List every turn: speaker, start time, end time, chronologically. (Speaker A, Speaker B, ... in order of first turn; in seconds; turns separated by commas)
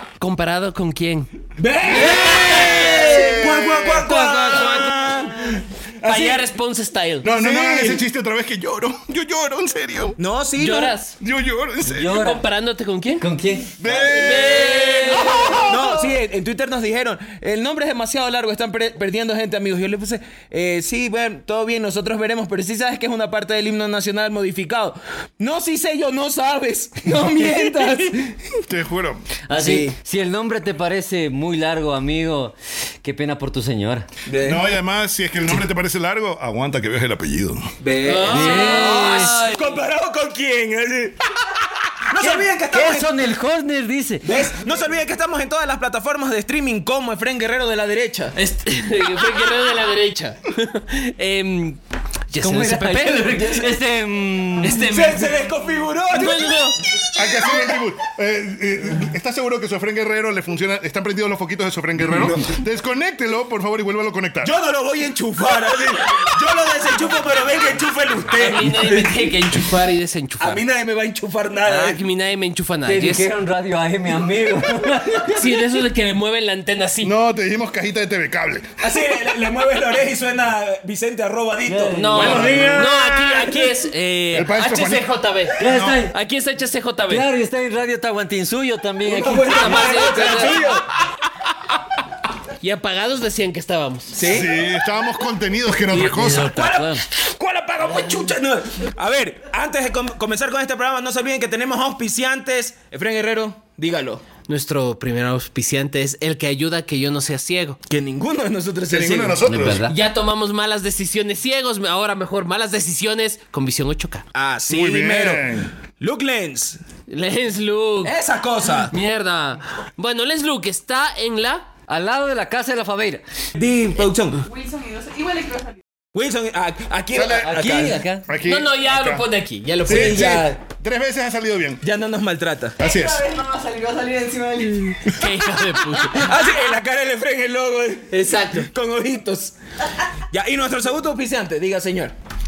Speaker A: 0.2-1.3, Speaker B: 1.6-6.5, Speaker A: 1.9-3.4, Speaker C: 2.3-4.9, Speaker A: 4.3-5.0, Speaker A: 6.0-7.3, Speaker C: 7.2-10.2, Speaker B: 7.2-8.0, Speaker B: 10.2-10.9, Speaker A: 10.6-11.2, Speaker C: 11.2-12.2, Speaker D: 11.8-12.4, Speaker A: 12.0-13.2, Speaker D: 13.2-13.8, Speaker C: 13.8-16.1, Speaker B: 13.9-28.6, Speaker A: 13.9-15.6, Speaker C: 28.7-29.3, Speaker D: 29.5-34.1, Speaker B: 29.5-30.0, Speaker B: 34.3-34.7, Speaker C: 34.4-37.7, Speaker B: 37.8-41.3, Speaker A: 38.0-39.8, Speaker D: 38.3-39.4, Speaker B: 42.0-43.2, Speaker D: 42.2-44.5, Speaker B: 44.2-48.4, Speaker A: 48.4-53.6, Speaker D: 52.4-55.0, Speaker A: 54.6-55.5, Speaker B: 54.8-57.8, Speaker A: 56.1-56.8, Speaker C: 57.1-64.5, Speaker B: 64.4-69.8, Speaker A: 68.3-70.6, Speaker B: 70.4-72.0, Speaker A: 71.7-73.3, Speaker D: 72.8-75.5, Speaker A: 75.3-77.1, Speaker C: 77.0-78.8, Speaker B: 78.8-83.6, Speaker D: 81.7-82.9, Speaker A: 81.9-87.3, Speaker C: 82.2-82.9, Speaker C: 84.3-85.1, Speaker D: 85.6-86.2, Speaker C: 85.6-86.0, Speaker D: 87.1-90.5, Speaker B: 89.0-90.8, Speaker A: 89.5-90.7, Speaker A: 92.6-94.2, Speaker B: 94.1-94.5, Speaker C: 94.2-96.6, Speaker D: 95.9-97.0, Speaker B: 96.4-104.2, Speaker A: 104.5-107.8, Speaker B: 107.9-109.4, Speaker C: 108.9-109.8, Speaker D: 109.5-110.0, Speaker A: 109.5-114.2, Speaker B: 114.3-116.8, Speaker C: 114.7-115.7, Speaker A: 117.1-118.2, Speaker B: 118.0-118.9, Speaker A: 118.9-121.7, Speaker D: 121.9-123.2, Speaker B: 123.5-124.4, Speaker E: 124.4-125.8, Speaker B: 126.1-128.0, Speaker C: 127.2-127.5, Speaker D: 127.3-128.3, Speaker C: 128.3-129.2, Speaker A: 128.4-130.5, Speaker C: 129.9-131.8, Speaker B: 129.9-130.6, Speaker B: 131.8-132.8, Speaker E: 132.8-135.1, Speaker C: 132.8-133.2, Speaker A: 135.1-136.3, Speaker B: 136.1-139.6, Speaker A: 138.1-138.7, Speaker B: 140.3-142.1